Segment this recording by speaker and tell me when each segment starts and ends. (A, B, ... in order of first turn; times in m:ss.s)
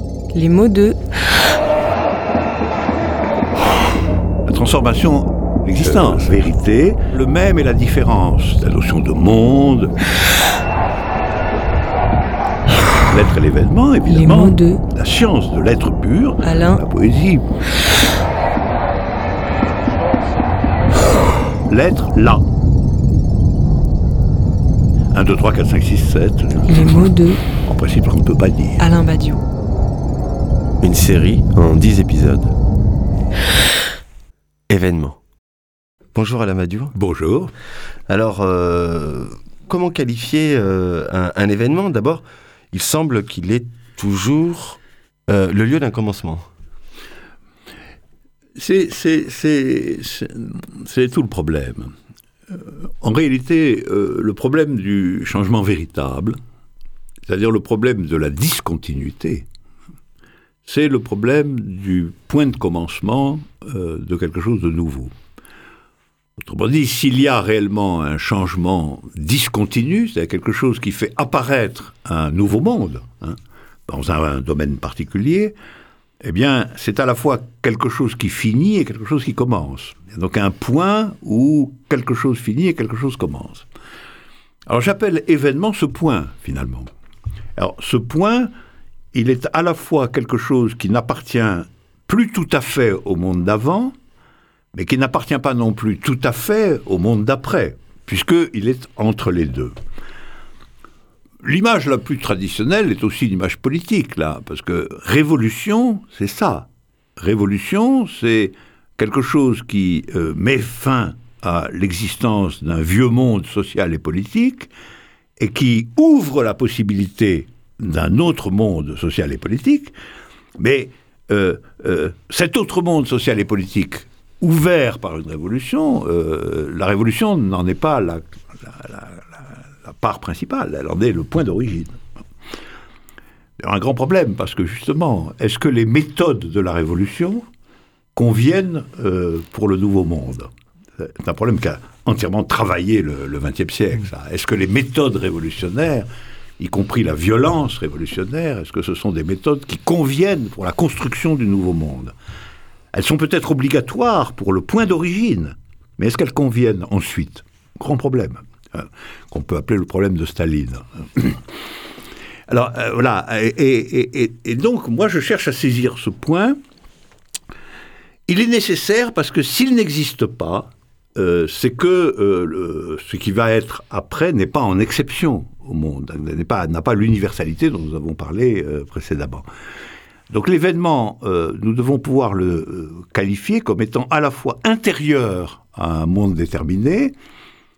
0:00.3-0:01.0 A
0:04.4-0:10.0 B
0:13.1-0:17.4 B
0:14.0-0:14.8 A
0:16.4-0:16.8 A
0:21.6-0:22.4 B
0:25.1-0:27.0 B
0:26.6-0:27.4 A
0:27.6-0:28.9 B
0:28.8-0:29.4 A
0:30.8-0:32.5 C
0:34.7-0:35.2 C
0:36.1-0:36.9 C
0:36.9-0:37.5 B
0:38.1-0:46.4 C
0:48.6-0:51.9 B
0:52.5-0:56.4 B
0:57.3-0:59.4 B
1:00.6-1:05.1 B
1:06.4-1:15.5 B
1:16.2-1:23.6 B
1:24.7-1:26.9 B
1:27.6-1:28.5 B
1:29.1-1:33.9 B
1:34.7-1:39.7 B
1:41.4-1:54.7 B
1:55.4-1:59.9 B
2:00.6-2:12.0 B
2:13.6-2:17.4 B
2:18.1-2:26.1 B
2:26.6-2:32.1 B
2:32.9-2:41.4 B
2:42.5-2:46.6 B
2:48.3-2:59.4 B
3:00.3-3:07.1 B